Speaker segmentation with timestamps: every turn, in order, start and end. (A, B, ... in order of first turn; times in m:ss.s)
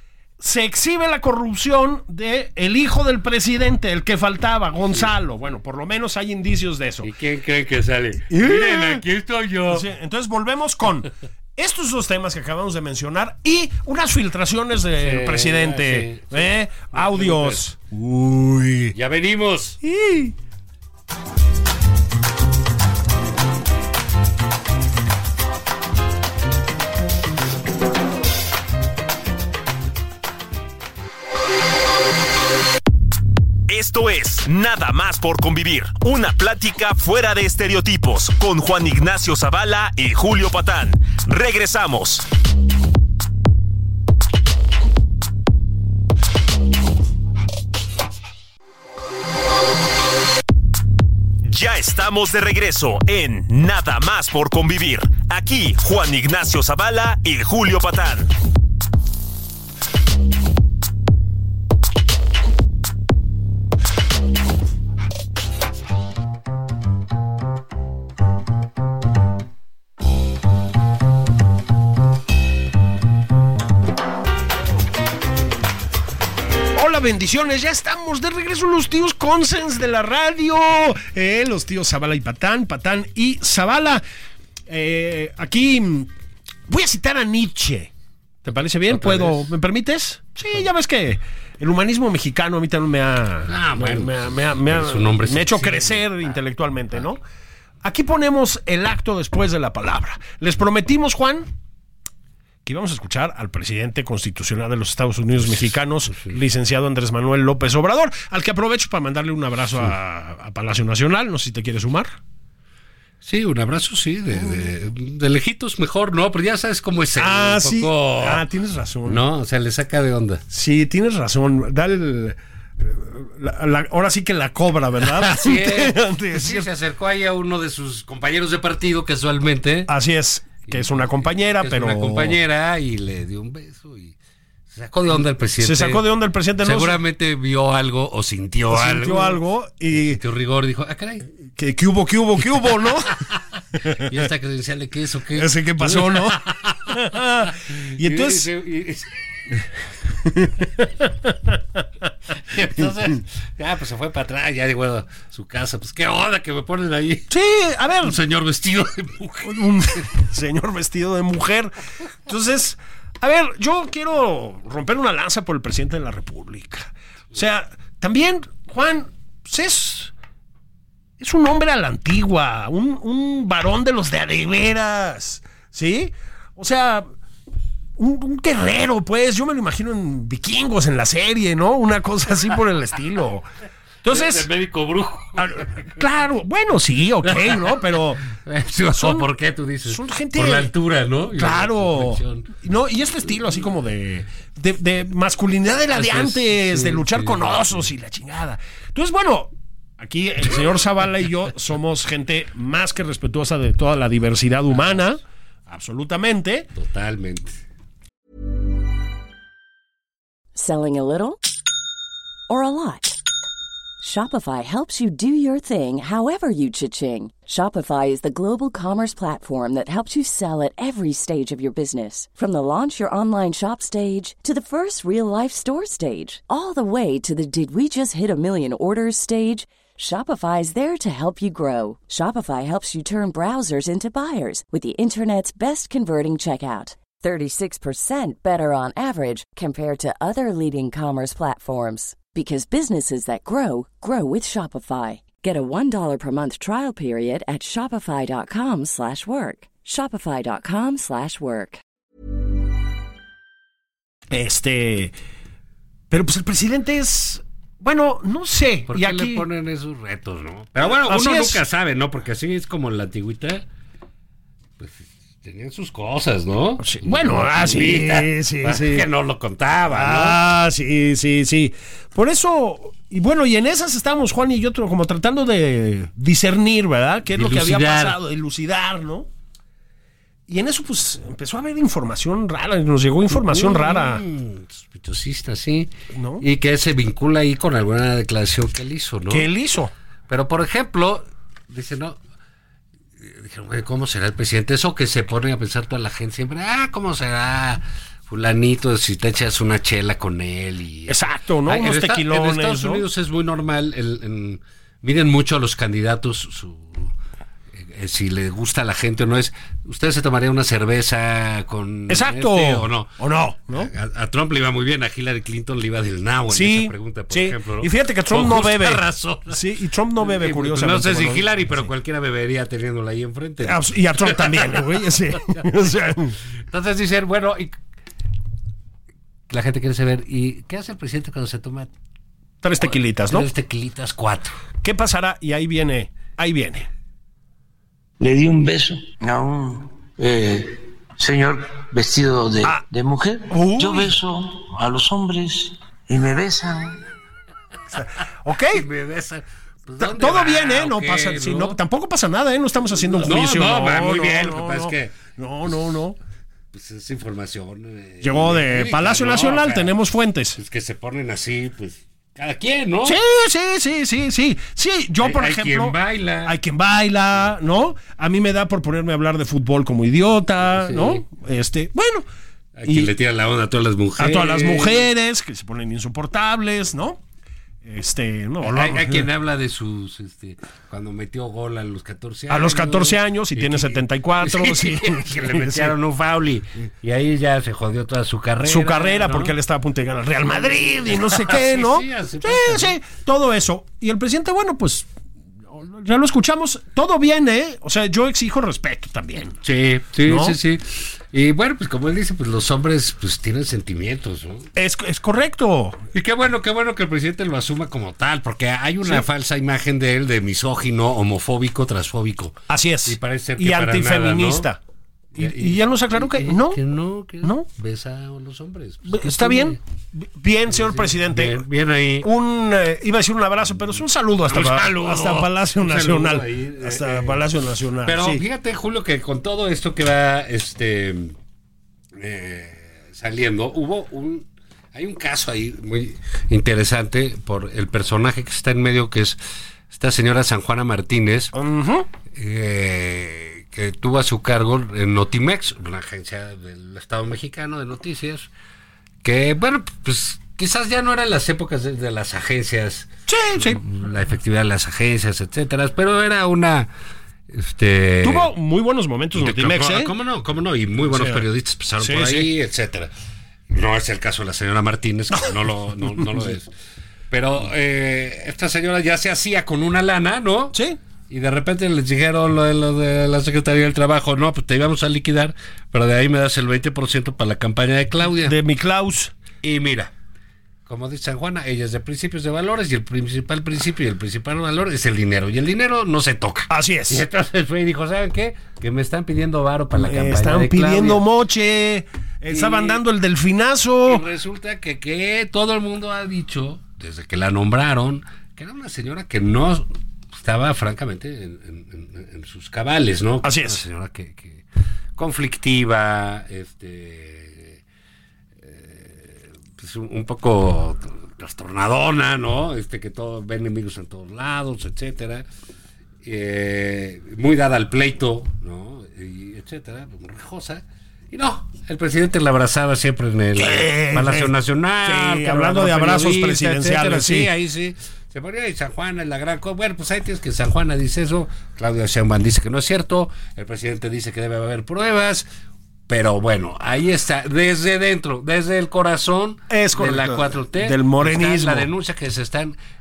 0:00.4-0:07.1 A
0:04.8-0:05.1 B
0:07.0-0:09.9 B
0:08.3-0:09.0 A
0:09.7-0:18.9 A
0:15.0-0:17.6 B
0:18.9-0:19.8 B
0:19.8-0:20.3 A
0:33.7-0:42.2 C
0:51.4-0:58.3 C
1:16.7-1:24.0 A
1:24.7-1:26.1 A
1:26.7-1:27.9 A
1:28.4-1:37.2 A
1:28.9-1:29.5 B
1:33.4-1:36.0 B
1:37.8-1:41.5 A
1:42.6-1:52.1 A
1:45.4-1:46.4 B
1:53.2-1:58.4 B
1:57.2-1:59.2 A
1:59.0-2:00.4 B
2:00.5-2:06.6 A
2:05.0-2:09.9 B
2:09.9-2:12.4 A
2:10.7-2:14.2 B
2:14.7-2:16.0 B
2:15.6-2:17.0 A
2:16.6-2:21.3 B
2:18.7-2:20.2 A
2:21.6-2:23.2 A
2:23.1-2:29.5 B
2:23.8-2:24.1 A
2:25.3-2:28.5 A
2:30.3-2:31.3 A
2:32.3-2:37.3 B
2:37.3-2:38.2 A
2:38.0-2:40.0 B
2:39.4-2:50.1 A
2:51.2-2:57.1 A
2:58.0-3:03.5 A
3:04.0-3:04.5 A
3:04.0-3:05.9 B
3:05.4-3:08.3 A
3:07.2-3:12.5 B
3:09.0-3:09.3 A
3:09.8-3:10.7 A
3:11.3-3:26.7 A
3:15.9-3:17.9 B
3:26.7-3:27.6 B
3:30.5-3:31.4 D
3:32.5-3:33.2 D
3:34.0-4:11.8 D
4:14.3-4:15.1 A
4:16.1-4:19.4 A
4:18.9-4:23.6 B
4:20.8-4:21.6 A
4:24.8-4:30.4 B
4:26.8-4:29.1 A
4:29.9-4:39.3 A
4:37.3-4:38.2 B
4:40.5-4:44.2 A
4:43.3-4:49.5 B
4:46.1-4:46.4 A
4:49.3-4:49.9 A
4:50.3-4:52.2 B
4:53.2-5:07.1 B
5:01.1-5:03.0 A
5:07.7-5:13.2 B
5:12.1-5:13.9 A
5:13.7-5:19.6 B
5:16.5-5:21.7 A
5:20.2-5:24.9 B
5:23.6-5:26.4 A
5:26.6-5:27.8 B
5:29.5-5:31.9 B
5:32.6-5:33.5 A
5:33.3-5:34.6 B
5:34.8-5:36.9 A
5:38.2-5:47.0 E
5:43.5-5:44.2 A
5:47.9-5:48.8 A
5:48.7-5:51.8 B
5:50.0-5:56.2 A
5:53.1-5:56.0 B
5:56.7-5:59.9 B
5:58.2-6:00.6 A
6:00.6-6:03.2 B
6:03.0-6:12.2 A
6:05.2-6:06.6 B
6:10.6-6:11.2 B
6:12.8-6:15.1 B
6:14.2-6:17.2 A
6:17.8-6:19.3 A
6:18.6-6:29.5 B
6:22.5-6:25.9 A
6:28.6-6:35.1 A
6:30.8-6:33.0 B
6:35.7-6:39.6 A
6:39.6-6:44.7 B
6:40.2-6:40.6 A
6:44.7-6:46.0 A
6:46.1-6:54.7 B
6:52.7-6:54.8 A
6:55.3-6:59.8 B
6:55.4-6:56.8 A
6:57.4-6:57.7 A
6:59.0-7:01.6 A
7:00.7-7:02.3 B
7:02.2-7:08.4 A
7:04.4-7:07.4 B
7:08.0-7:11.3 B
7:12.1-7:21.5 B
7:21.5-7:22.1 A
7:22.3-7:28.5 B
7:29.2-7:36.9 B
7:33.3-7:33.8 A
7:37.5-7:38.5 B
7:38.2-7:40.1 A
7:39.3-7:43.1 B
7:41.1-7:41.4 A
7:42.0-7:42.5 A
7:43.7-7:46.7 B
7:47.3-7:58.6 B
7:58.4-7:59.3 A
7:59.6-8:00.1 B
8:00.8-8:11.2 B
8:06.7-8:07.2 A
8:10.0-8:14.2 A
8:12.5-8:13.0 B
8:14.0-8:24.6 B
8:23.4-8:23.8 A
8:25.2-8:27.8 B
8:28.6-8:35.4 B
8:36.2-8:55.4 B
8:43.6-8:47.5 A
8:56.1-9:02.7 B
8:59.7-9:01.9 A